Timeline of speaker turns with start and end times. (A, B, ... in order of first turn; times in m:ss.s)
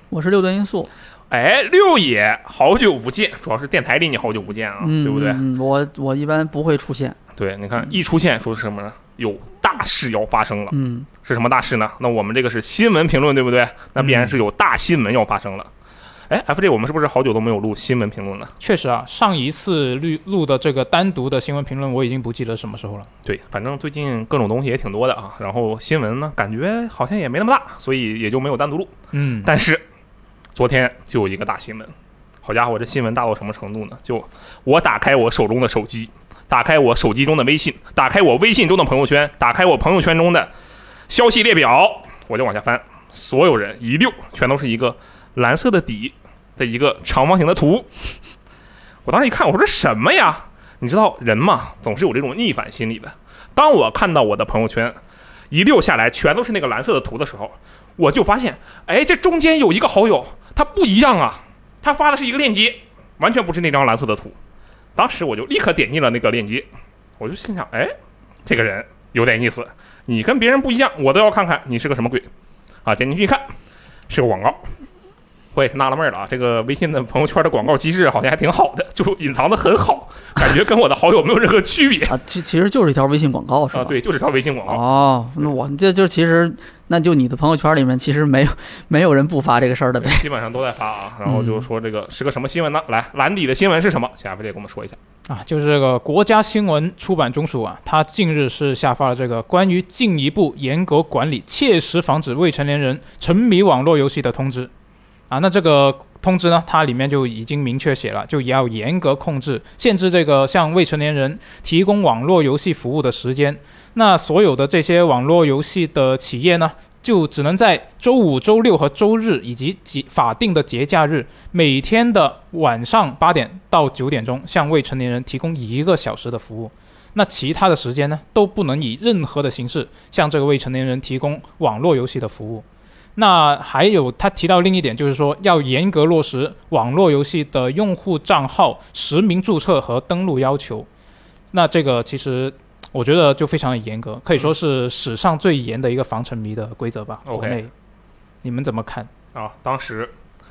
0:00.1-0:00.9 A
0:01.3-0:05.4 B
0:04.8-0:07.2 A
0:07.4-0:15.7 B
0:10.7-0:11.1 A
0:16.3-0:18.5 B
0:18.6-0:23.1 C
0:23.2-0:29.8 B
0:29.1-0:29.5 C
0:30.5-0:31.9 B
0:32.4-0:40.5 B
0:41.1-0:47.9 B
0:49.0-0:55.0 B
0:55.5-1:04.4 B
1:05.0-1:06.7 B
1:07.2-1:07.9 B
1:08.4-1:12.3 B
1:12.8-1:13.5 B
1:14.1-1:14.7 B
1:15.5-1:22.2 B
1:22.1-1:23.9 A
1:23.7-1:24.8 B
1:24.6-1:30.2 A
1:30.0-1:35.0 B
1:31.2-1:31.6 A
1:35.3-1:44.7 C
1:45.3-2:12.6 C
2:13.2-2:20.9 C
2:21.5-2:27.7 C
2:27.2-2:27.6 B
2:28.4-2:29.1 C
2:29.3-2:30.1 B